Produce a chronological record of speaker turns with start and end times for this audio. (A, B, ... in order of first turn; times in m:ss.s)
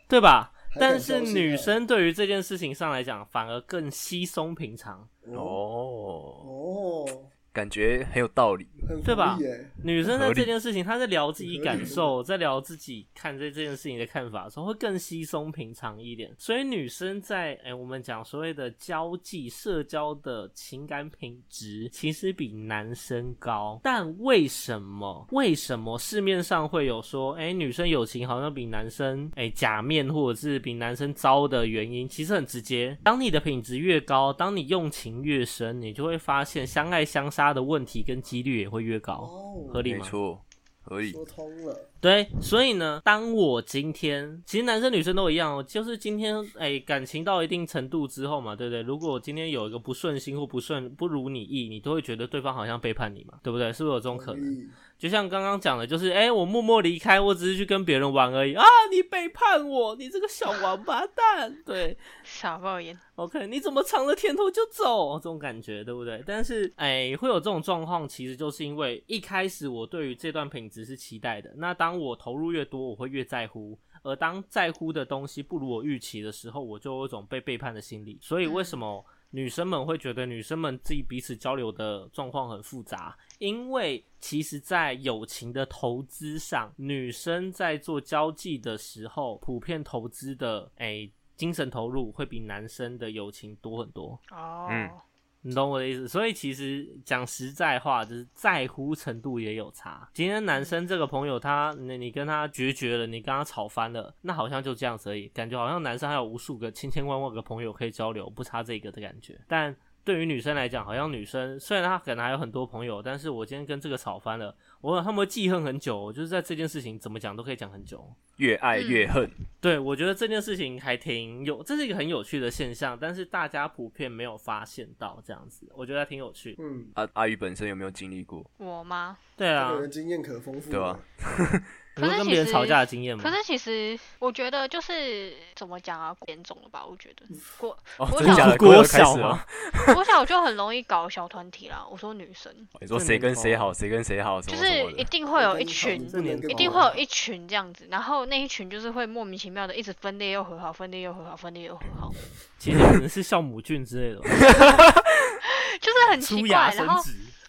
0:00.1-0:05.1 A
0:00.7-0:01.8 B
0:05.2-0:05.6 B
0:05.3-0:06.5 C
0:06.4-0:07.3 B
0:07.5-0:08.8 C
0:08.8-0:09.8 B
0:09.0-0:40.2 A
0:10.0-0:10.5 C
0:11.4-0:12.1 B
0:39.2-0:39.9 B
0:39.9-0:41.2 C
0:41.0-0:41.9 B
0:42.0-1:02.0 A
0:54.1-0:54.8 B
1:02.2-1:03.0 D
1:03.2-1:34.2 A
1:18.4-1:18.8 D
1:34.3-1:35.0 D
1:34.7-1:34.9 C
1:35.4-1:58.2 A
1:58.4-1:59.3 C
1:58.7-1:59.2 D
1:59.6-2:06.6 A
2:06.6-2:06.9 B
2:07.0-2:08.5 C
2:08.6-2:09.2 D
2:09.4-2:09.9 A
2:09.6-2:11.0 B
2:10.7-2:11.6 C
2:12.0-2:13.3 A
2:12.0-2:18.6 D
2:18.0-2:20.0 C
2:18.2-2:19.4 A
2:19.8-2:22.7 D
2:22.8-2:25.1 C
2:22.9-2:23.7 A
2:24.5-2:32.2 D
2:25.3-2:27.0 B
2:25.9-2:27.0 A
2:32.6-2:34.5 A
2:34.4-2:35.0 C
2:35.4-2:37.1 D
2:36.2-2:37.3 A